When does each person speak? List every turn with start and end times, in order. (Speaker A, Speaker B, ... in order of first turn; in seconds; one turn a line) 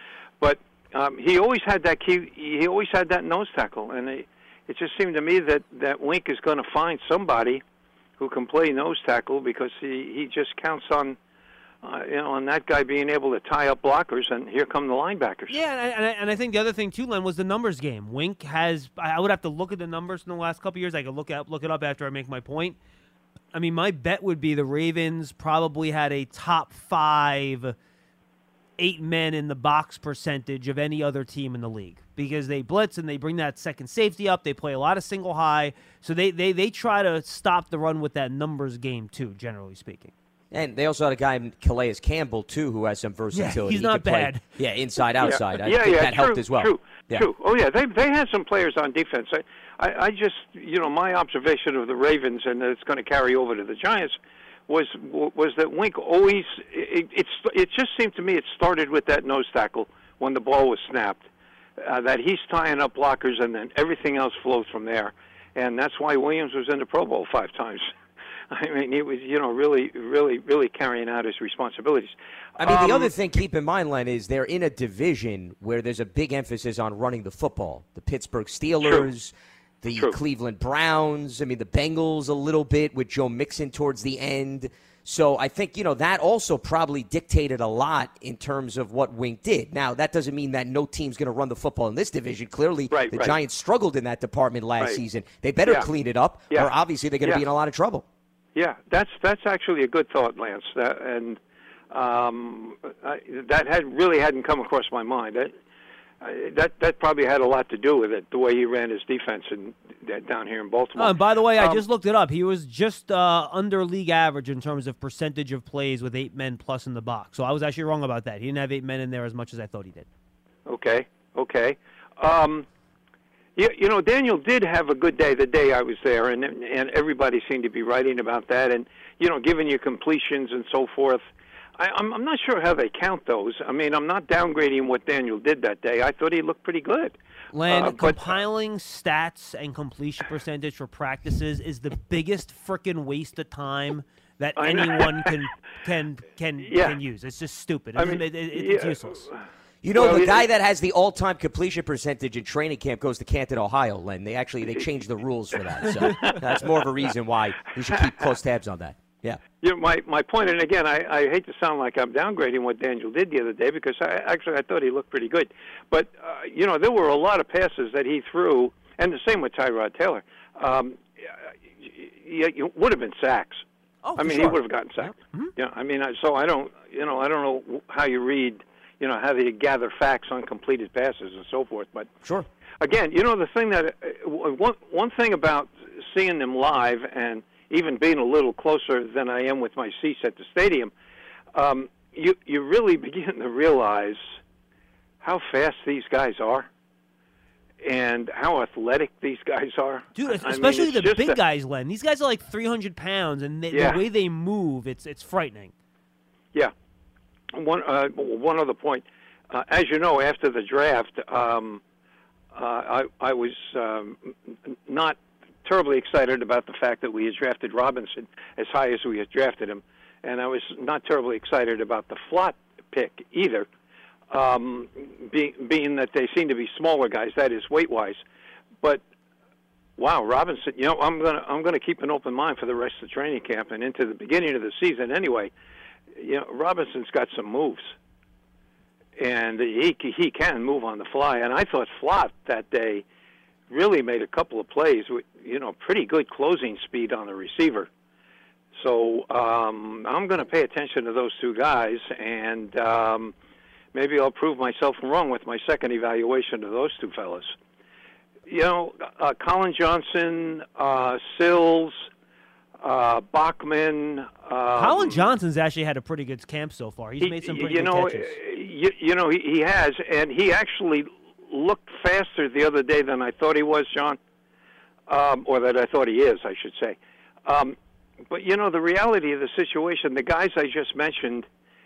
Speaker A: 0.4-7.6
Speaker A: 8.2-11.2
Speaker A: 11.8-15.6
Speaker B: 15.5-22.8
Speaker B: 23.5-27.7
Speaker B: 28.8-40.1
Speaker C: 40.5-47.3
Speaker B: 43.3-44.4
Speaker A: 45.2-54.1
Speaker A: 54.7-61.2
Speaker A: 61.8-67.9
Speaker A: 68.5-73.1
Speaker C: 72.6-98.0
Speaker A: 92.9-93.4
Speaker A: 96.5-97.5
Speaker A: 98.6-101.4
Speaker A: 101.9-105.5
Speaker A: 106.2-111.8
Speaker B: 111.0-120.1
Speaker A: 120.7-122.7
Speaker A: 123.6-131.2
Speaker A: 131.8-138.4
Speaker B: 137.5-149.2
Speaker A: 144.6-145.3
Speaker A: 146.6-147.0
Speaker A: 147.9-149.4
Speaker C: 149.8-159.4
Speaker A: 149.9-150.5
Speaker A: 156.1-156.7
Speaker A: 159.6-171.3
Speaker A: 171.8-173.6
Speaker B: 174.0-175.5
Speaker A: 174.2-182.1
Speaker A: 182.8-190.9
Speaker A: 191.5-194.2
Speaker A: 195.2-196.7
Speaker A: 197.8-201.4
Speaker B: 200.1-205.7
Speaker A: 203.7-204.0
Speaker A: 207.5-211.8
Speaker A: 212.5-214.3
Speaker A: 214.9-223.7
Speaker A: 224.3-228.2
Speaker A: 230.0-235.5
Speaker A: 236.2-237.9
Speaker A: 239.2-243.0
Speaker A: 243.7-247.9
Speaker A: 248.8-253.3
Speaker A: 253.9-257.5
Speaker A: 258.5-262.1
Speaker A: 262.8-265.3
Speaker B: 264.8-268.4
Speaker A: 267.2-274.2
Speaker A: 275.1-277.8
Speaker A: 278.3-281.4